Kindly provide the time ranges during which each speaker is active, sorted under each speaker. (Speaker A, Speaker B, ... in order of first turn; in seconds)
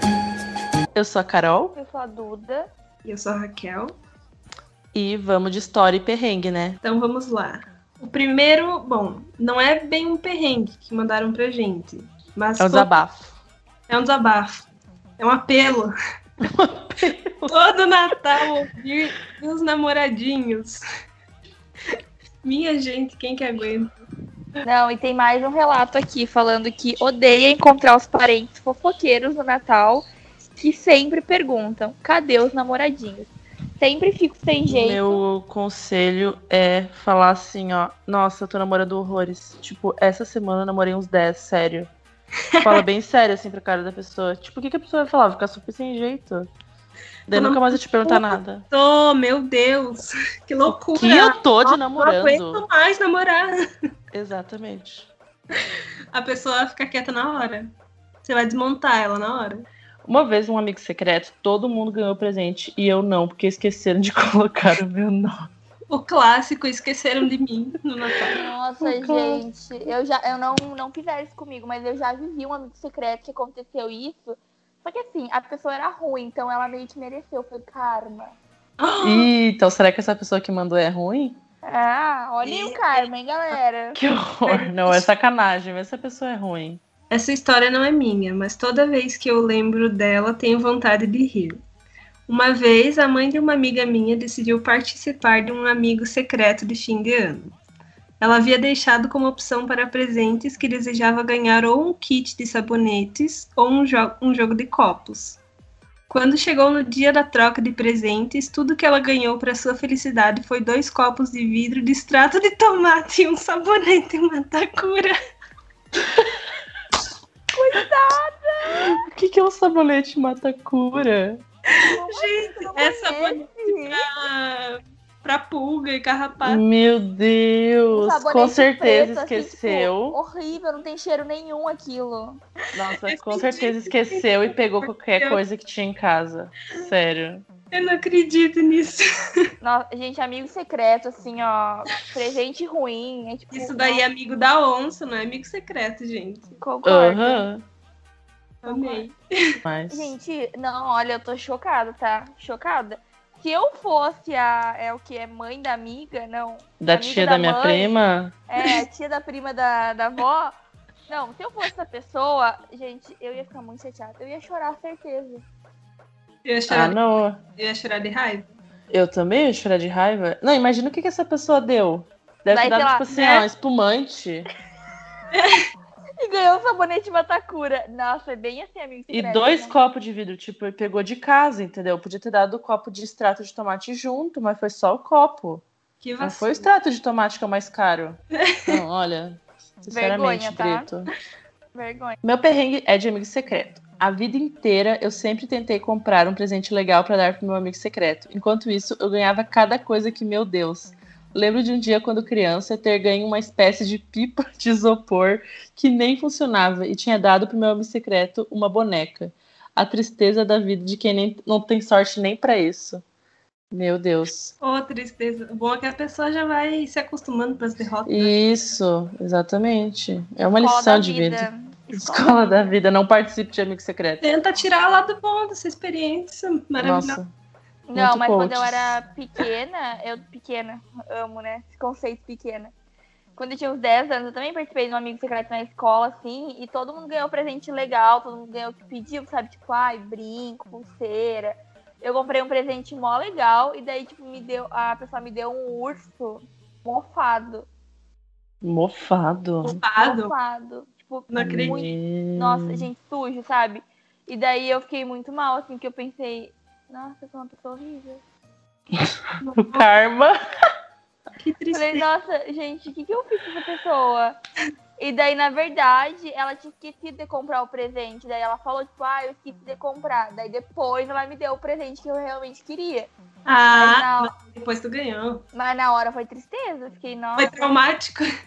Speaker A: 0.9-1.8, 4.9-6.8, 12.6-13.3, 16.4-17.5, 34.7-41.9, 42.6-46.5, 47.3-48.6, 50.9-52.6, 54.1-55.1, 60.0-65.5, 68.3-69.4, 79.0-81.4, 83.9-86.8, 118.7-121.4, 126.4-130.2, 132.7-137.4, 146.8-147.6, 149.6-150.1, 156.8-158.3, 166.7-167.4, 168.9-174.5, 179.1-185.6, 186.2-191.1, 192.2-213.0, 213.7-214.5, 218.1-224.3, 226.8-227.3, 227.9-228.9, 248.6-249.8, 251.4-252.9, 258.9-260.4
Speaker B: 1.8-2.7, 24.6-35.2, 68.3-78.4, 81.6-84.0, 117.5-118.9, 121.7-124.0, 127.9-132.4, 139.6-144.0, 146.6-147.4, 148.6-149.1, 149.9-160.5, 161.1-165.4, 172.5-173.4, 176.2-179.8, 189.9-190.9, 191.7-192.2, 220.6-222.7, 227.9-232.7, 233.3-247.7, 250.0-258.2, 261.7-264.4, 265.0-273.1, 273.7-274.3, 275.5-277.7
Speaker C: 3.0-3.9, 6.8-13.0, 13.9-14.6, 15.2-15.9, 17.5-20.8, 22.4-23.9, 42.5-42.8, 47.3-53.5, 56.1-57.7, 58.2-59.6, 65.9-68.4, 78.8-79.3, 82.4-83.1, 84.4-85.1, 87.1-91.6, 92.3-97.5, 98.2-105.4, 106.1-115.1, 122.0-126.6, 133.0-135.4, 137.7-139.0, 143.5-146.6, 148.6-149.2, 158.6-158.8, 166.4-167.0, 167.6-168.5, 186.0-186.7, 214.6-218.4, 224.2-227.2, 249.6-250.3, 251.3-251.8, 259.4-259.9, 261.4-262.1, 273.4-275.4, 277.4-278.2